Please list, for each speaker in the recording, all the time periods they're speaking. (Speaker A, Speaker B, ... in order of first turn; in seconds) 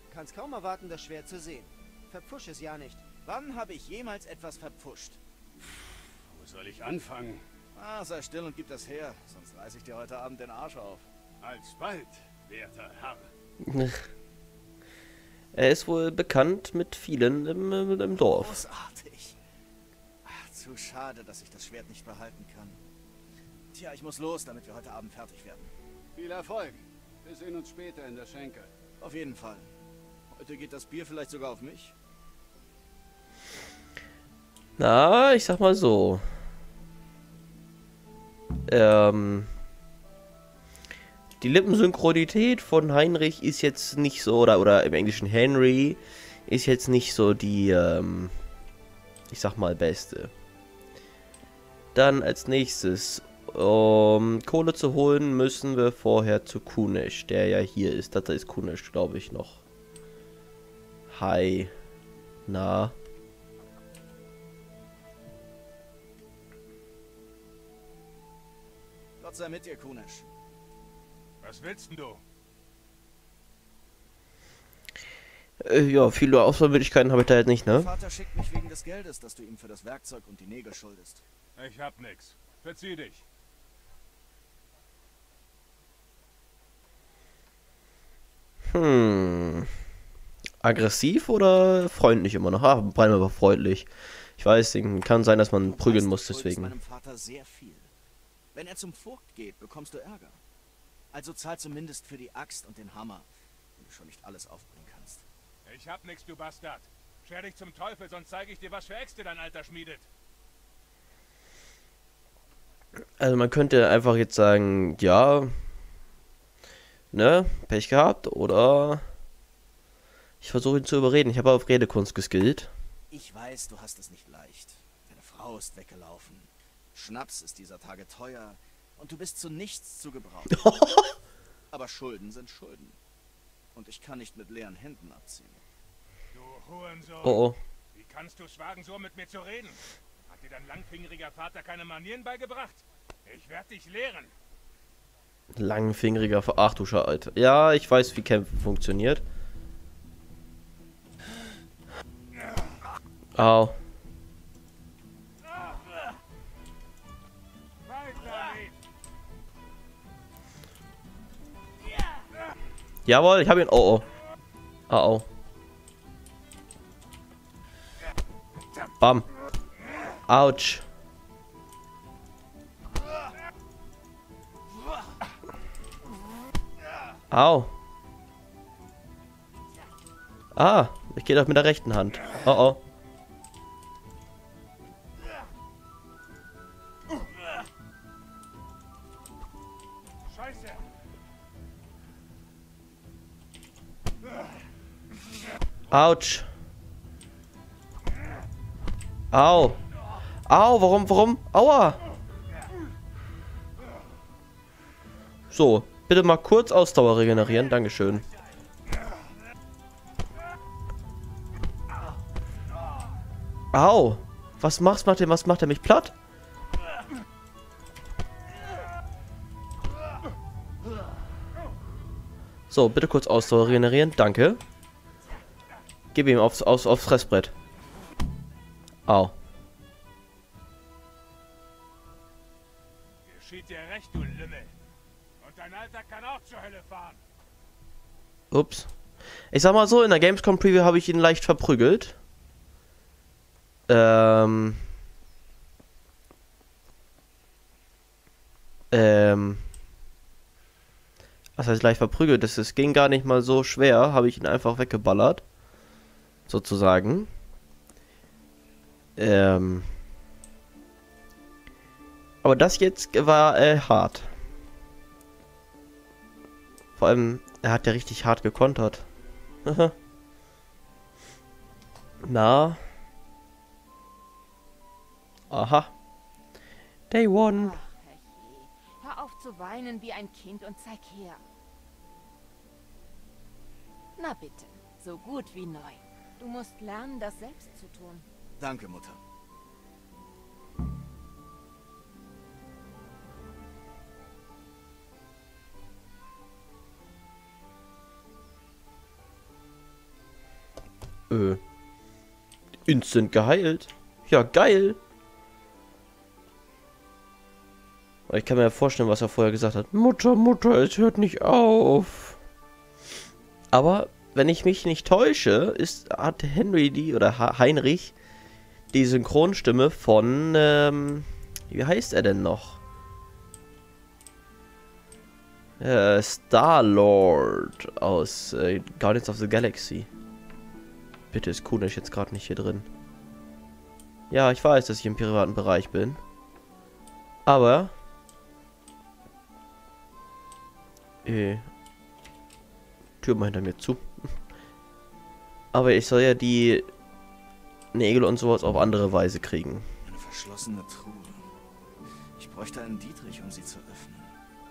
Speaker A: 0.1-3.1
Speaker B: 3.2-5.2, 7.8-11.1, 18.2-19.4, 20.2-22.8, 23.7-25.7, 29.0-29.7, 30.3-31.9, 69.2-70.3, 77.7-81.2, 95.6-97.9, 98.5-100.4, 101.1-103.3, 103.8-105.2, 123.1-130.7, 131.7-133.0, 133.8-135.6, 288.6-289.2, 350.1-351.5, 352.4-354.4
Speaker C: 5.6-7.4, 11.4-13.3, 26.2-28.7
Speaker D: 13.6-14.1, 15.5-18.6, 34.8-36.2, 38.7-39.5, 41.4-48.4, 49.3-50.3, 51.9-59.6, 61.1-61.7, 62.5-63.0, 75.6-77.9, 88.6-89.7, 90.6-96.8, 113.2-115.6, 117.1-119.0, 120.4-122.7, 130.5-131.0, 137.2-137.6, 145.5-149.2, 153.3-153.8, 163.1-164.1, 164.9-165.3, 169.0-169.3, 170.3-170.9, 177.3-177.7, 180.6-182.8, 195.9-196.5, 199.3-199.8, 200.5-202.0, 205.5-208.3, 213.7-216.2, 222.7-224.6, 226.1-227.5, 229.1-229.3, 238.5-238.9, 239.5-242.2, 243.9-244.9, 248.9-249.7, 251.6-255.4, 256.5-257.3, 259.2-259.9, 262.4-264.3, 267.0-269.1, 269.6-269.9, 272.2-272.8, 275.5-275.9, 277.1-277.8, 301.3-301.6, 302.9-305.0, 308.3-312.4, 313.7-318.1, 318.9-322.8, 325.8-330.1, 331.3-332.9, 334.3-336.2, 337.5-337.9, 341.2-341.7, 343.2-344.4, 345.7-346.9, 347.9-349.9
Speaker E: 71.4-72.2, 81.6-83.2, 105.7-110.1, 136.3-144.3, 157.8-158.7, 190.3-190.9, 233.3-234.7, 235.4-237.2
Speaker F: 277.6-281.4, 284.2-288.3